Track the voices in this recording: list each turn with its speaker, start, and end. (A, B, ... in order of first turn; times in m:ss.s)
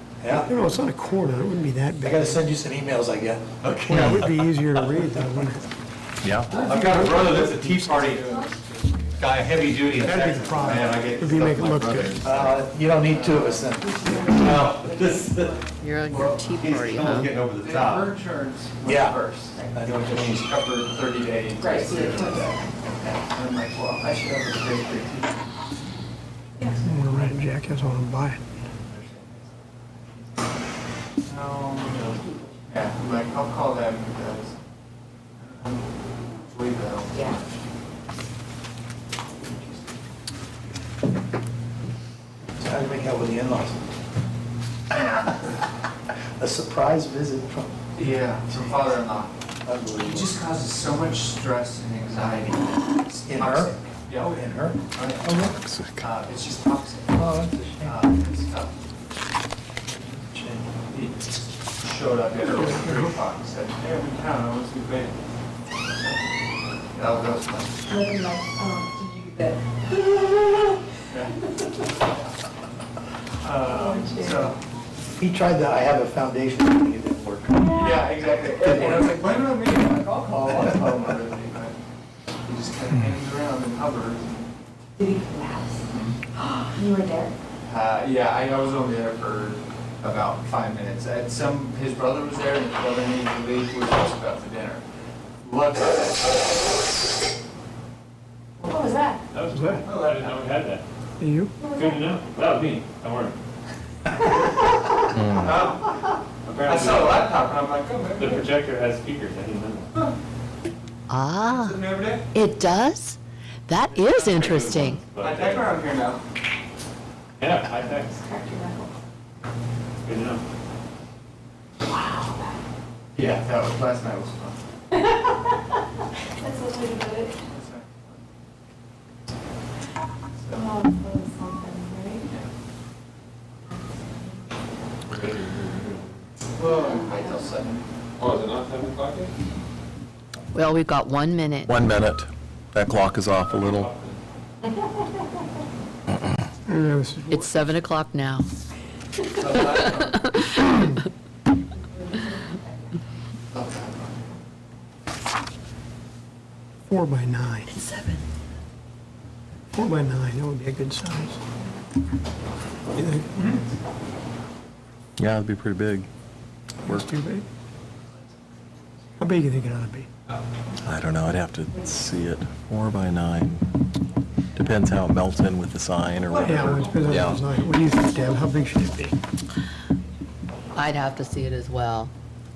0:00.2-0:00.5 A
0:00.3-0:02.4 B
0:02.0-0:04.2 A
0:03.7-0:04.0 C
0:03.9-0:05.7 B
0:06.2-0:06.5 D
0:06.5-0:08.3 C
0:06.5-0:11.4 E
0:09.2-0:12.7 C
0:09.9-0:12.2 B
0:12.2-0:14.1 A
0:13.0-0:14.2 E
0:13.9-0:15.7 F
0:14.3-0:15.6 C
0:15.8-0:17.3 G
0:16.1-0:16.5 E
0:16.5-0:18.1 C
0:17.6-0:25.5 E
0:18.8-0:19.2 A
0:19.7-0:20.5 A
0:21.6-0:22.6 F
0:26.8-0:28.6 B
0:28.7-0:29.8 E
0:31.2-0:32.1 E
0:32.7-0:34.6 E
0:35.4-0:37.7 E
0:42.6-0:43.8 A
0:44.9-0:45.6 A
0:46.4-0:47.8 A
0:47.9-0:49.3 E
0:48.5-0:48.8 A
0:49.6-0:50.4 A
0:50.0-0:55.4 E
0:53.2-0:55.6 A
0:55.6-0:56.1 D
0:56.0-0:58.7 E
0:57.1-0:58.0 A
1:00.3-1:00.8 A
1:00.9-1:05.2 E
1:02.4-1:03.1 B
1:06.9-1:07.8 E
1:07.9-1:10.8 F
1:13.4-1:14.6 E
1:13.7-1:14.5 F
1:15.2-1:17.8 A
1:17.7-1:21.7 E
1:18.7-1:19.1 A
1:22.4-1:24.5 E
1:25.0-1:25.8 F
1:25.9-1:26.2 E
1:26.4-1:27.3 F
1:27.6-1:34.8 E
1:35.4-1:36.5 E
1:38.6-1:39.2 F
1:39.3-1:40.8 H
1:39.5-1:39.9 B
1:39.8-1:40.4 E
1:41.2-1:41.7 B
1:41.6-1:43.4 H
1:44.2-1:48.5 E
1:45.1-1:45.6 D
1:46.4-1:47.3 H
1:48.2-1:49.9 H
1:51.1-1:51.8 G
1:51.5-1:52.2 E
1:52.3-1:55.0 G
1:53.9-1:55.8 H
1:55.2-1:56.2 E
1:57.4-1:58.1 H
1:57.6-1:58.0 E
1:58.2-1:58.9 F
2:00.0-2:00.4 H
2:01.9-2:02.6 F
2:03.1-2:04.6 E
2:06.4-2:07.4 F
2:07.4-2:08.2 E
2:10.4-2:10.7 E
2:10.6-2:12.3 F
2:13.7-2:14.4 F
2:15.1-2:16.2 H
2:16.5-2:17.9 E
2:16.9-2:17.4 F
2:18.2-2:19.3 H
2:20.5-2:21.8 G
2:21.6-2:23.9 D
2:23.5-2:24.2 H
2:26.7-2:27.5 B
2:27.3-2:28.5 G
2:29.3-2:30.3 E
2:29.5-2:31.0 G
2:32.0-2:32.7 F
2:33.5-2:34.4 E
2:36.9-2:37.7 B
2:37.7-2:38.2 G
2:39.7-2:41.4 B
2:42.9-2:43.3 B
2:45.2-2:46.1 D
2:46.8-2:47.4 B
2:49.2-2:50.1 B
2:50.8-2:53.6 D
2:54.5-2:57.4 D
2:56.3-2:57.2 H
2:56.3-2:59.2 B
3:00.7-3:02.1 G